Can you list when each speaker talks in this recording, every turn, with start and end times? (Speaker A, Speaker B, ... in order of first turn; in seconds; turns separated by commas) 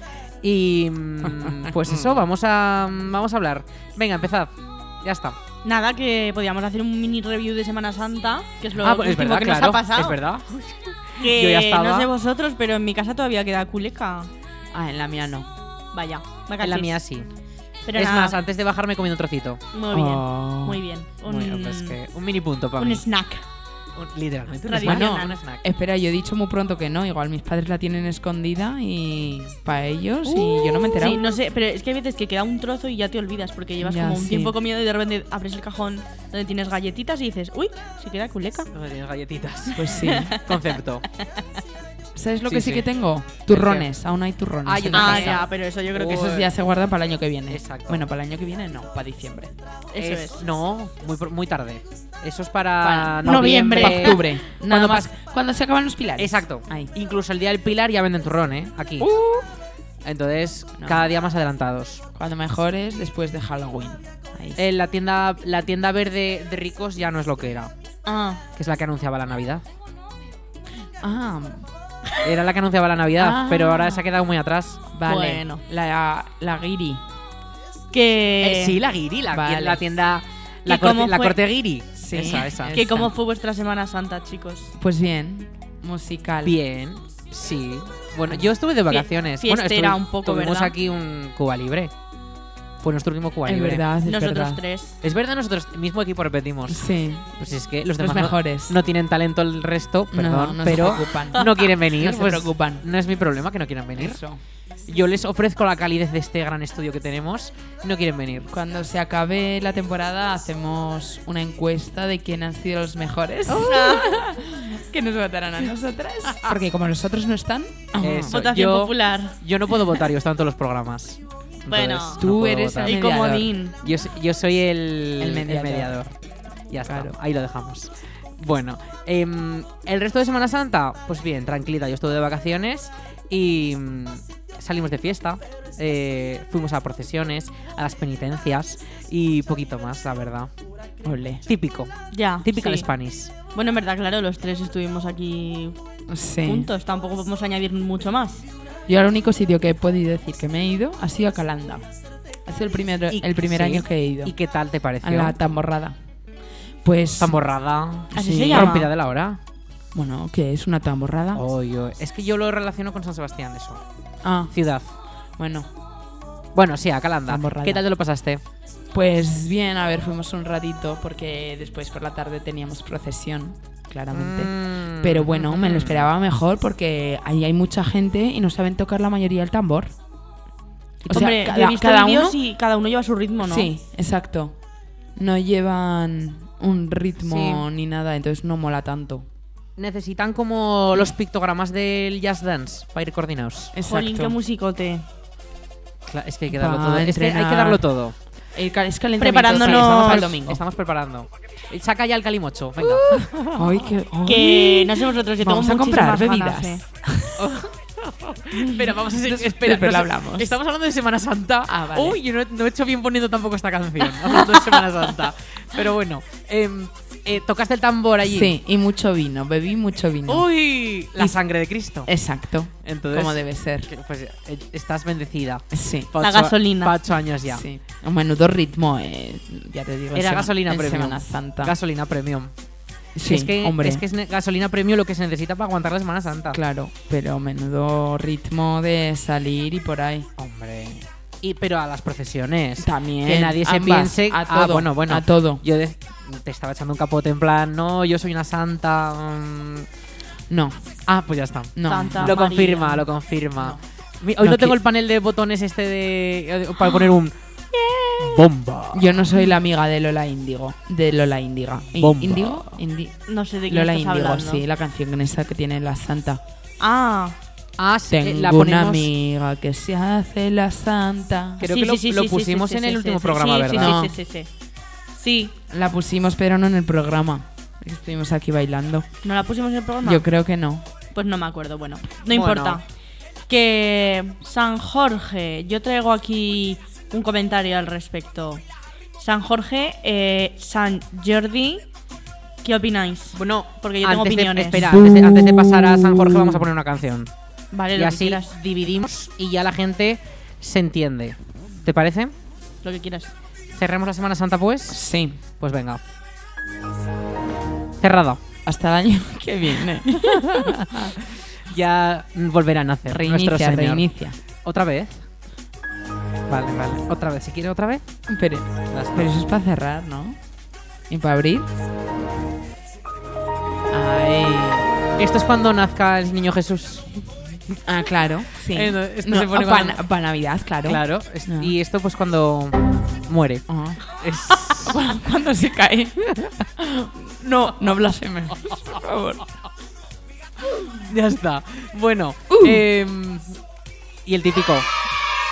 Speaker A: 0.4-4.5, Speaker B: 1.3-1.9, Speaker A: 5.0-5.4, Speaker C: 5.6-10.2, Speaker A: 8.8-12.1, Speaker C: 11.2-14.3, Speaker B: 14.7-15.5, Speaker C: 15.9-16.9, Speaker A: 16.6-17.3, Speaker C: 17.9-18.4, Speaker A: 17.9-19.6, Speaker C: 19.7-21.9, Speaker B: 19.9-20.8, Speaker A: 21.2-23.0, Speaker C: 22.8-23.4, Speaker A: 23.9-25.6, Speaker C: 24.7-25.3, Speaker B: 24.8-31.2, Speaker C: 30.2-38.7, Speaker B: 33.8-34.5, Speaker A: 38.7-41.0, Speaker B: 39.7-40.3, Speaker C: 40.0-40.6, Speaker B: 42.1-45.5, Speaker A: 42.5-42.9, Speaker A: 43.5-43.9, Speaker A: 44.6-46.5, Speaker C: 44.9-46.3, Speaker B: 46.0-49.5, Speaker A: 47.5-48.0, Speaker C: 49.9-50.4, Speaker A: 50.0-55.1, Speaker B: 52.8-56.9, Speaker C: 53.2-54.2, Speaker A: 56.2-59.1, Speaker B: 59.0-59.5, Speaker A: 60.0-62.0, Speaker B: 60.8-61.1, Speaker B: 62.1-64.6, Speaker A: 64.6-67.7, Speaker C: 68.0-68.4, Speaker A: 68.5-69.6, Speaker B: 71.0-71.7, Speaker A: 72.2-74.8, Speaker B: 73.2-74.0, Speaker B: 74.9-77.0, Speaker C: 75.0-75.6, Speaker C: 77.9-78.8, Speaker A: 78.4-83.1, Speaker B: 79.3-79.8, Speaker C: 80.7-81.4, Speaker B: 82.0-83.1, Speaker C: 82.7-84.7, Speaker B: 84.8-86.6, Speaker A: 86.4-91.9, Speaker C: 88.9-90.7, Speaker A: 92.8-93.8, Speaker B: 93.4-94.6, Speaker C: 94.0-94.9, Speaker A: 95.0-96.8, Speaker B: 96.7-97.4, Speaker A: 97.4-104.2, Speaker B: 98.0-98.8, Speaker B: 100.1-102.8, Speaker B: 103.9-104.4, Speaker A: 104.9-108.5, Speaker B: 108.5-118.3, Speaker C: 113.5-114.1, Speaker A: 118.0-123.2, Speaker C: 118.3-119.3, Speaker C: 121.7-122.2, Speaker B: 122.2-123.5, Speaker C: 122.8-123.7, Speaker A: 123.8-126.1, Speaker B: 125.2-125.9, Speaker A: 126.7-140.5, Speaker B: 126.8-127.2, Speaker B: 141.0-141.4, Speaker A: 141.4-143.3, Speaker C: 142.1-142.9, Speaker C: 143.5-145.7, Speaker B: 146.1-146.7, Speaker C: 146.4-148.4, Speaker B: 148.9-151.8, Speaker B: 152.4-154.3, Speaker A: 153.1-155.4, Speaker B: 155.0-156.0, Speaker B: 156.8-157.4, Speaker A: 157.2-159.4, Speaker C: 158.1-158.8, Speaker B: 158.1-158.9, Speaker B: 159.9-161.4, Speaker A: 161.3-163.8, Speaker B: 164.2-164.5, Speaker A: 164.5-165.0, Speaker B: 165.4-165.7, Speaker A: 166.5-168.4, Speaker B: 167.3-167.8, Speaker B: 168.9-179.9, Speaker A: 174.1-176.1, Speaker B: 181.0-182.4, Speaker C: 181.1-183.7, Speaker B: 183.4-184.6, Speaker B: 185.2-189.3, Speaker A: 187.2-187.6, Speaker A: 189.8-193.7, Speaker B: 193.7-194.3, Speaker C: 193.8-195.0, Speaker A: 196.1-198.2, Speaker B: 196.5-197.8, Speaker B: 198.5-200.6, Speaker C: 199.2-200.2, Speaker A: 199.5-203.9, Speaker B: 203.5-207.3, Speaker C: 204.2-206.8, Speaker A: 207.4-218.6, Speaker B: 209.2-210.6, Speaker B: 211.7-212.2, Speaker B: 214.4-214.7, Speaker B: 218.2-220.5, Speaker A: 220.3-222.1, Speaker B: 222.1-223.9, Speaker A: 222.8-227.7, Speaker B: 225.7-226.1, Speaker C: 226.2-226.9, Speaker B: 227.4-231.7, Speaker A: 230.1-232.5, Speaker B: 233.1-234.0, Speaker A: 233.2-236.6, Speaker B: 236.5-240.3, Speaker A: 240.4-249.9, Speaker B: 242.8-245.6, Speaker B: 250.5-250.9, Speaker A: 251.1-257.3, Speaker B: 251.7-253.0, Speaker C: 251.9-252.8, Speaker B: 254.4-254.8, Speaker C: 257.7-258.4, Speaker A: 258.2-259.3, Speaker B: 258.9-266.4, Speaker A: 262.0-262.8, Speaker C: 263.3-264.6, Speaker C: 266.8-267.4, Speaker A: 267.8-269.1, Speaker B: 268.1-271.6, Speaker A: 271.6-273.9, Speaker C: 271.6-274.5, Speaker B: 273.7-274.1, Speaker C: 275.1-275.5, Speaker B: 275.7-279.1, Speaker C: 279.2-280.2, Speaker B: 280.0-280.9, Speaker C: 281.1-282.8, Speaker A: 282.3-282.8, Speaker C: 283.5-288.6, Speaker C: 289.2-291.9, Speaker C: 292.6-294.8, Speaker A: 293.3-297.3, Speaker B: 294.7-296.6, Speaker C: 297.7-298.5, Speaker A: 297.9-302.3, Speaker C: 302.8-303.3, Speaker A: 303.7-305.0, Speaker B: 304.9-305.4, Speaker A: 305.6-306.0, Speaker A: 308.0-308.4, Speaker B: 308.6-311.1, Speaker A: 310.2-314.1, Speaker B: 313.1-314.4, Speaker A: 314.6-315.2, Speaker A: 316.5-318.0, Speaker B: 318.3-320.4, Speaker A: 318.9-319.4, Speaker B: 321.1-321.7, Speaker B: 323.9-324.9, Speaker A: 325.2-327.1, Speaker B: 327.9-331.7, Speaker A: 328.7-330.0, Speaker A: 330.9-334.9, Speaker B: 333.7-334.0, Speaker B: 334.5-336.2, Speaker B: 336.8-339.4, Speaker A: 338.6-339.0, Speaker A: 341.0-343.6, Speaker B: 342.5-342.8, Speaker A: 344.2-344.9